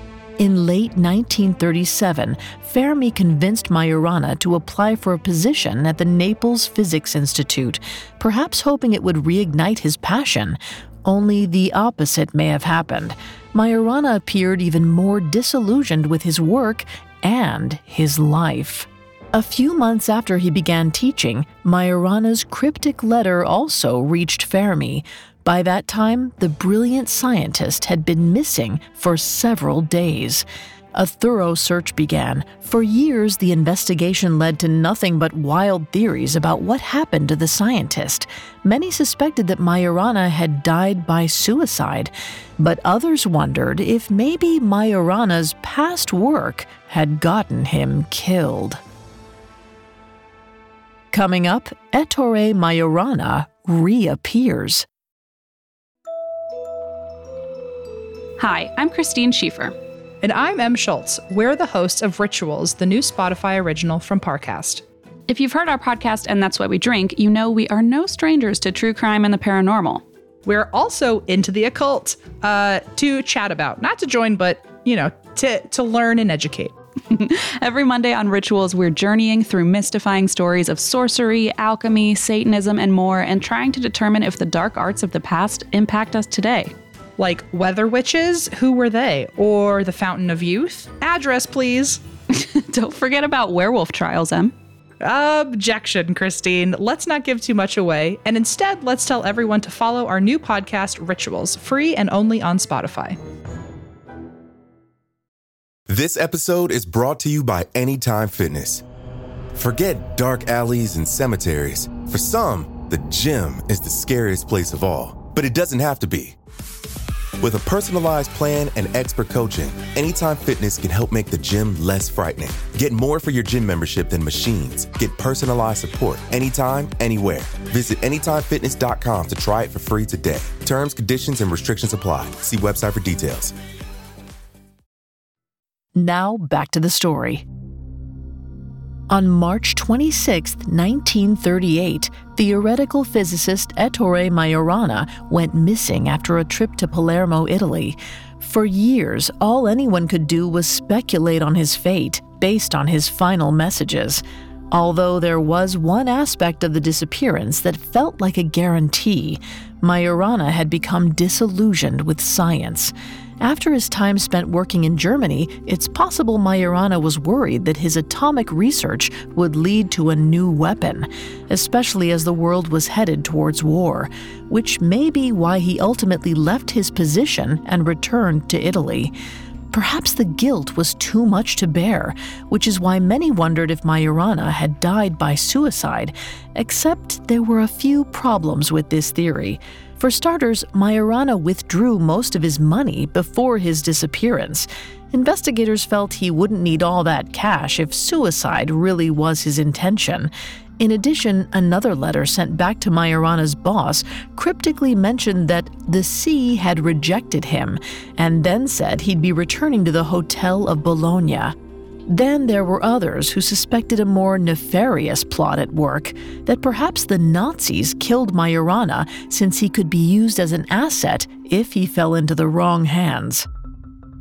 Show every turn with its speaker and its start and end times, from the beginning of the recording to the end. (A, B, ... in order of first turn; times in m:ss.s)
0:00.4-0:48.8 A
0:51.1-0:54.8 A
0:58.4-0:59.8 B
1:00.2-1:04.8 C
1:05.3-1:10.0 B
1:10.4-1:16.7 C
1:17.1-1:26.7 B
1:27.2-1:32.0 C
1:32.3-1:34.5 B
1:35.0-1:43.2 C
1:45.9-1:48.8 D
1:49.6-1:56.4 D
1:57.4-2:13.5 D
2:16.0-2:17.5 A
2:19.1-2:59.1 A
2:59.7-3:31.6 A
3:32.1-3:43.5 A